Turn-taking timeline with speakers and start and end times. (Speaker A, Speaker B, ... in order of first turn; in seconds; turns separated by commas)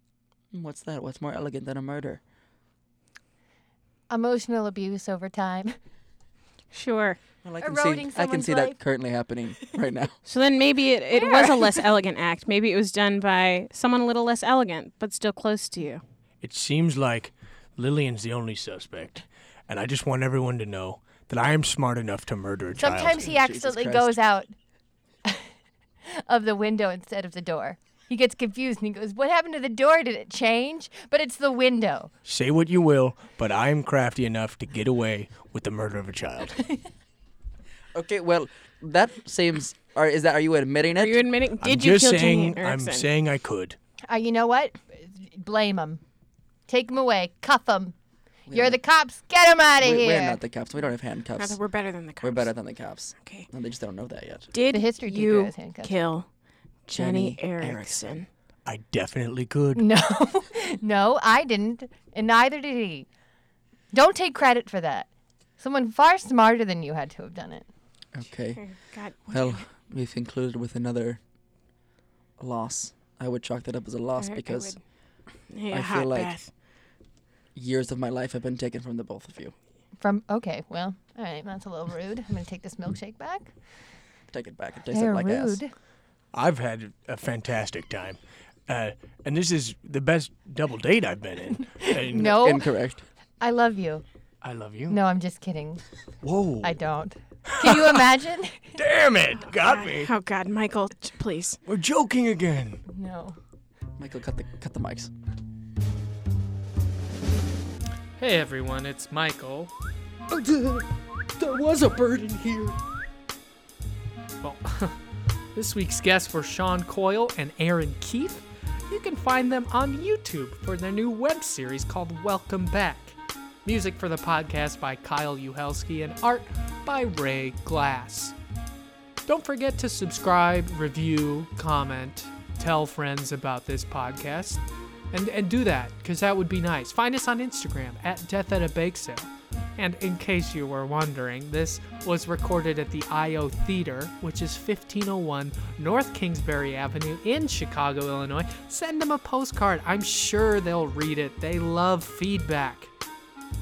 Speaker A: 0.5-2.2, Speaker B: 4.1-5.8, Speaker C: 6.7-7.2, Speaker A: 7.4-10.2, Speaker B: 7.6-8.8, Speaker C: 10.2-16.0, Speaker B: 11.1-11.8, Speaker D: 16.4-23.2, Speaker B: 22.8-24.5, Speaker A: 23.1-24.2, Speaker B: 26.1-32.1, Speaker D: 32.2-36.7, Speaker A: 37.9-41.3, Speaker C: 41.0-43.1, Speaker D: 41.6-43.8, Speaker B: 44.1-46.0, Speaker B: 46.7-48.0, Speaker A: 48.5-48.8, Speaker B: 48.5-50.4, Speaker A: 49.8-51.6, Speaker C: 51.4-52.5, Speaker A: 52.2-54.5, Speaker C: 54.5-56.2, Speaker B: 54.7-55.9, Speaker C: 56.9-58.3, Speaker A: 56.9-58.0, Speaker D: 58.6-59.9, Speaker B: 59.8-63.1, Speaker B: 63.9-67.7, Speaker A: 68.1-68.6, Speaker C: 68.6-69.6, Speaker A: 69.3-71.2, Speaker A: 72.4-74.8, Speaker C: 74.2-74.8, Speaker C: 75.5-76.5, Speaker A: 75.7-76.3, Speaker A: 77.5-79.5, Speaker B: 80.0-83.5, Speaker A: 84.3-85.6, Speaker B: 84.9-85.7, Speaker D: 86.3-92.3, Speaker B: 91.7-92.7, Speaker A: 92.1-93.0, Speaker B: 93.4-94.0, Speaker D: 94.4-95.0, Speaker B: 94.9-95.8, Speaker D: 96.2-96.8, Speaker B: 96.6-98.8, Speaker D: 97.5-98.0, Speaker D: 98.8-100.1, Speaker C: 99.4-101.6, Speaker D: 101.7-102.8, Speaker B: 102.9-103.4, Speaker A: 104.0-105.1, Speaker E: 108.2-109.7, Speaker A: 110.3-112.8, Speaker E: 114.4-115.0, Speaker E: 115.5-128.3, Speaker E: 129.2-152.9